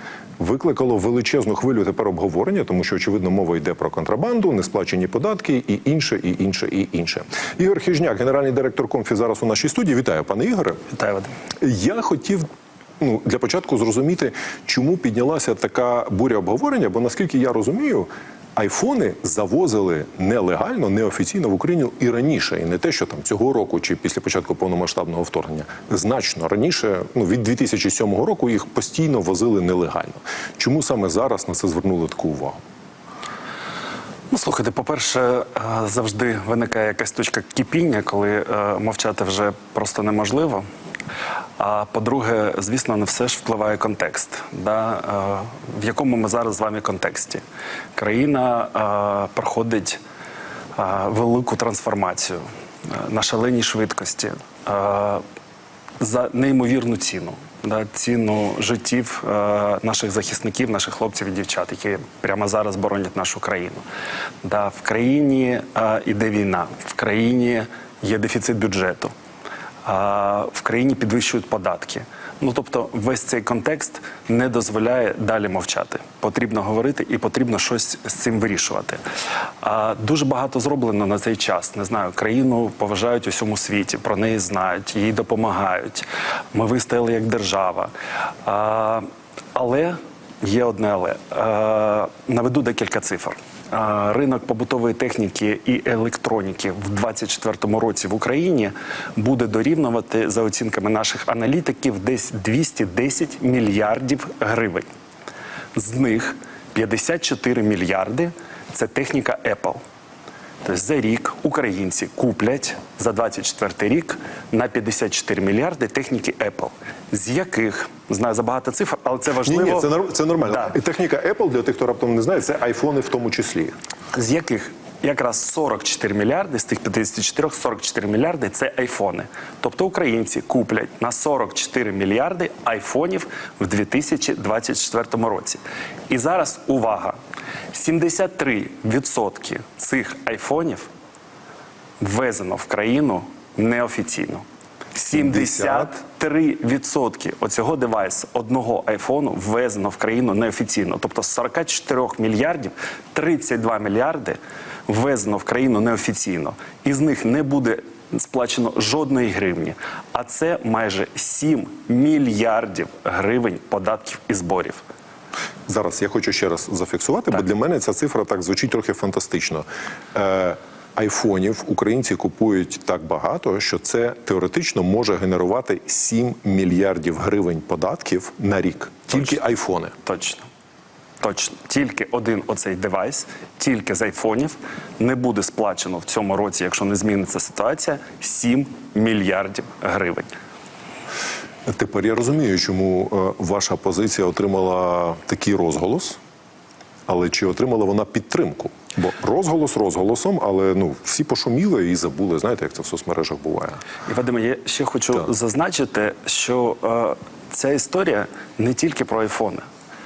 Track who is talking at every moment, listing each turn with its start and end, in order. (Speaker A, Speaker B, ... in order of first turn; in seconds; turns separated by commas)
Speaker A: 0.4-10.8, Speaker B: 10.9-11.3, Speaker A: 11.6-12.5, Speaker A: 13.0-32.6, Speaker B: 34.3-40.6, Speaker B: 41.6-47.4, Speaker B: 48.0-50.0, Speaker B: 50.8-55.2, Speaker B: 56.0-63.8, Speaker B: 64.4-69.1, Speaker B: 69.8-79.0, Speaker B: 79.6-87.9, Speaker B: 88.4-104.8, Speaker B: 105.8-109.8, Speaker B: 110.6-119.9, Speaker A: 119.4-123.7, Speaker B: 120.5-120.7, Speaker B: 124.1-137.2, Speaker B: 137.7-140.9, Speaker B: 142.0-164.8, Speaker A: 145.1-145.9, Speaker A: 165.7-179.9, Speaker B: 180.0-180.5, Speaker B: 181.2-190.3, Speaker A: 191.7-196.2, Speaker A: 197.1-203.8, Speaker B: 204.1-209.6